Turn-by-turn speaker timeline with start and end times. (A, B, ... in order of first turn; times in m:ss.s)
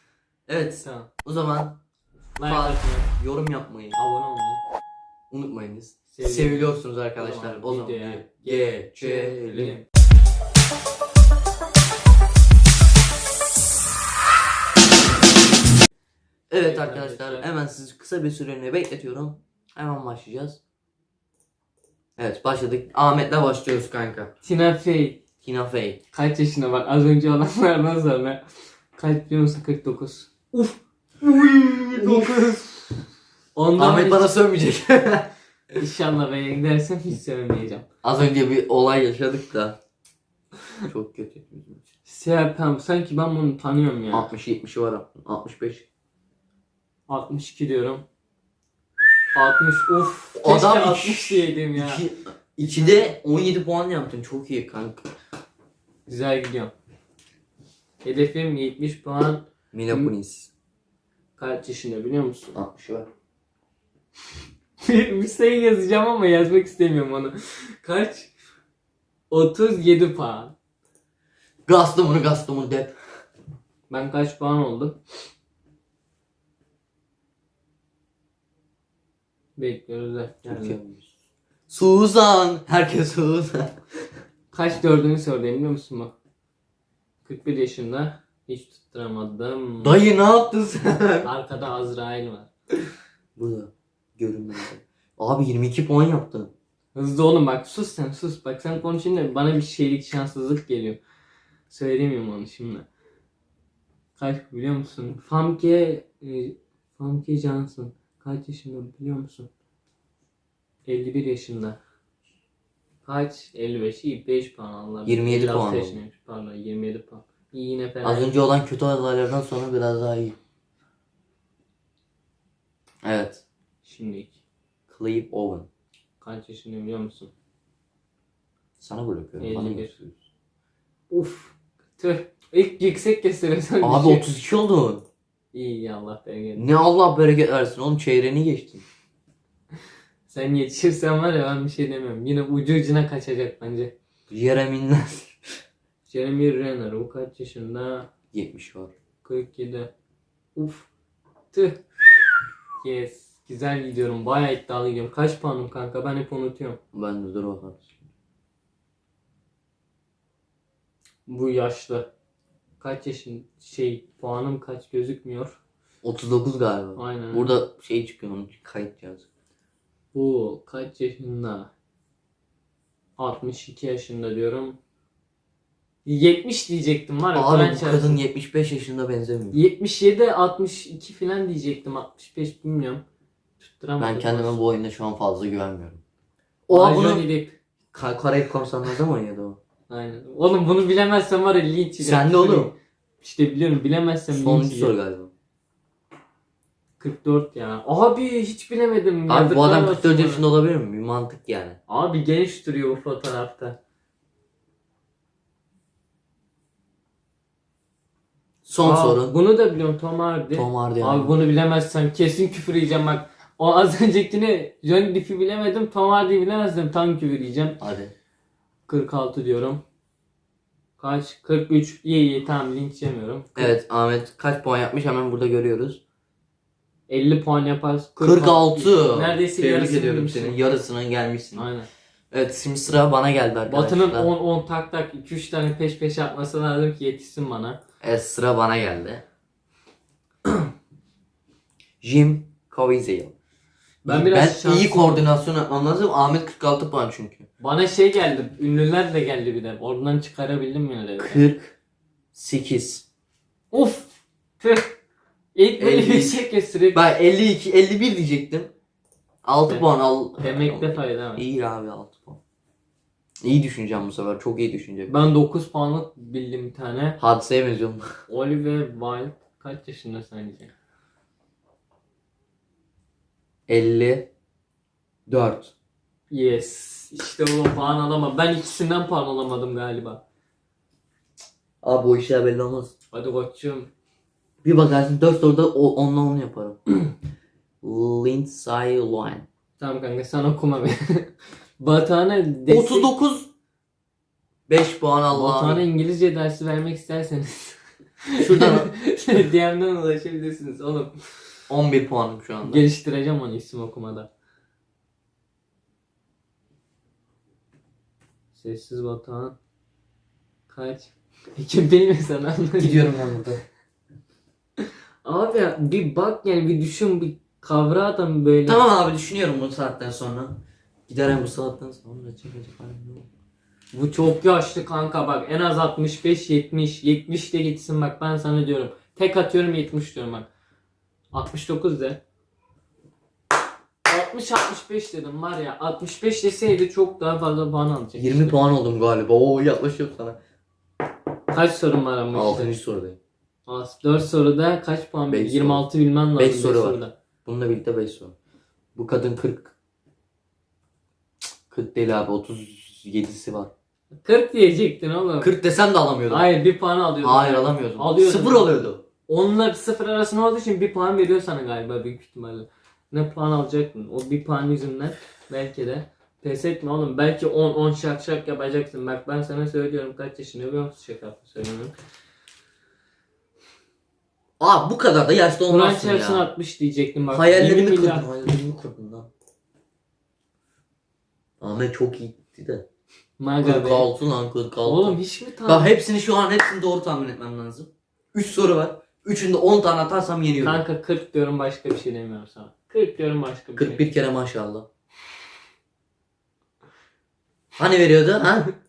0:00.5-0:01.8 A
0:00.8-0:01.1 B
0:02.4-0:03.1 B
0:02.4-0:04.0 A
0:03.9-0:04.6 B
0:05.3-0:09.8 A
0:06.1-0:09.8 B
0:16.5-0:20.6 A
0:16.6-0:17.5 B
0:22.2-0:24.3 A
0:24.4-0:25.2 B
0:25.4-0:26.0 A
0:26.1-0:28.4 B
0:28.9-0:30.8 B
0:31.2-0:32.6 A
0:31.9-0:32.8 B
0:33.5-0:34.3 B
0:33.8-0:35.3 A
0:35.8-0:37.8 B
0:38.0-0:39.8 A
0:40.8-0:41.8 A
0:42.0-0:44.3 B
0:44.1-0:45.8 A
0:47.1-0:48.0 B
0:49.3-0:52.0 B
0:50.3-0:55.1 A
0:52.8-0:53.1 B
0:56.1-0:56.7 B
0:58.0-1:00.1 B
0:59.7-1:00.5 A
1:01.4-1:02.6 B
1:02.5-1:03.1 A
1:04.8-1:08.3 B
1:09.3-1:10.5 B
1:11.6-1:13.0 A
1:13.9-1:15.0 B
1:19.6-1:20.8 B
1:20.4-1:21.1 A
1:21.7-1:23.8 A
1:24.5-1:26.1 B
1:27.2-1:30.0 B
1:29.8-1:31.3 A
1:31.2-1:32.5 B
1:33.4-1:36.5 A
1:36.9-1:41.0 B
1:41.7-1:42.8 B
1:44.2-1:49.5 B
1:50.8-1:51.8 B
1:53.0-1:58.3 B
1:55.0-1:56.0 A
1:58.0-2:00.3 A
2:03.0-2:03.4 A
2:03.8-2:04.4 B
2:04.9-2:05.7 A
2:06.2-2:07.3 B
2:08.8-2:10.1 A
2:09.4-2:10.0 B
2:11.1-2:14.2 B
2:13.8-2:15.0 A
2:15.5-2:16.6 B
2:16.6-2:18.8 A
2:20.3-2:23.9 B
2:24.3-2:25.4 A
2:26.1-2:28.1 B
2:28.3-2:28.9 A
2:29.2-2:29.9 B
2:30.5-2:30.9 B
2:31.5-2:31.8 B
2:32.8-2:36.8 B
2:36.9-2:37.9 A
2:41.2-2:42.1 B
2:42.8-2:45.6 B
2:46.0-2:49.2 A
2:47.0-2:47.5 B
2:50.1-2:51.7 B
2:53.2-2:54.8 B
2:56.0-2:58.2 B
2:57.3-2:59.6 A
2:59.5-3:03.0 B
3:03.6-3:04.6 B
3:04.0-3:06.0 A
3:06.7-3:07.3 A
3:06.7-3:07.6 B
3:07.9-3:09.6 A
3:09.9-3:14.9 B
3:12.0-3:12.7 A
3:14.3-3:15.3 A
3:17.0-3:20.4 B
3:19.3-3:21.8 A
3:21.9-3:23.8 B
3:28.6-3:29.3 A
3:28.8-3:37.8 B
3:30.5-3:31.3 A
3:37.8-3:38.1 A
3:38.9-3:39.8 B
3:41.0-3:43.7 B
3:43.6-3:46.0 A
3:47.1-3:50.6 B
3:48.2-3:51.7 A
3:51.5-3:51.9 B
3:52.3-3:54.3 A
3:53.7-3:57.8 B
3:58.0-3:59.2 A
4:02.0-4:03.3 A
4:04.0-4:05.2 B
4:04.0-4:07.4 A
4:07.6-4:11.4 B
4:11.2-4:11.7 A
4:12.3-4:13.0 A
4:13.7-4:15.0 B
4:15.5-4:17.1 B
4:15.8-4:18.7 A
4:19.4-4:22.4 A
4:19.7-4:21.4 B
4:23.4-4:25.1 A
4:25.1-4:27.2 B
4:27.2-4:28.1 A
4:28.3-4:30.7 B
4:33.7-4:34.3 A
4:35.3-4:35.7 A
4:36.3-4:40.2 B
4:41.8-4:42.9 A
4:43.1-4:43.9 B
4:44.6-4:46.8 A
4:47.8-4:49.4 A
4:49.8-4:53.1 B
4:52.7-4:53.5 A
4:54.7-4:55.8 A
4:55.3-4:57.8 B
4:58.3-5:01.2 B
4:58.4-4:58.9 A
5:01.7-5:02.9 A
5:02.6-5:04.3 B
5:08.5-5:09.5 B
5:10.7-5:13.1 B
5:12.8-5:13.6 A
5:15.2-5:18.8 B
5:18.6-5:23.3 A
5:23.9-5:30.5 B
5:31.3-5:32.2 B
5:34.0-5:38.6 B
5:38.2-5:40.4 A
5:41.5-5:42.7 B
5:42.3-5:43.2 A
5:43.6-5:47.1 B
5:45.3-5:48.3 A
5:48.9-5:49.7 A
5:51.7-5:53.7 A
5:54.2-5:55.5 B
5:55.4-5:56.5 A
5:56.3-6:11.9 B
5:57.2-5:59.0 A
6:14.6-6:16.5 A
6:15.7-6:18.3 B
6:17.3-6:19.3 A
6:21.6-6:22.8 A
6:23.4-6:24.1 B
6:23.6-6:30.8 A
6:24.8-6:25.9 B
6:30.6-6:34.0 B
6:33.8-6:34.8 A
6:37.8-6:38.7 A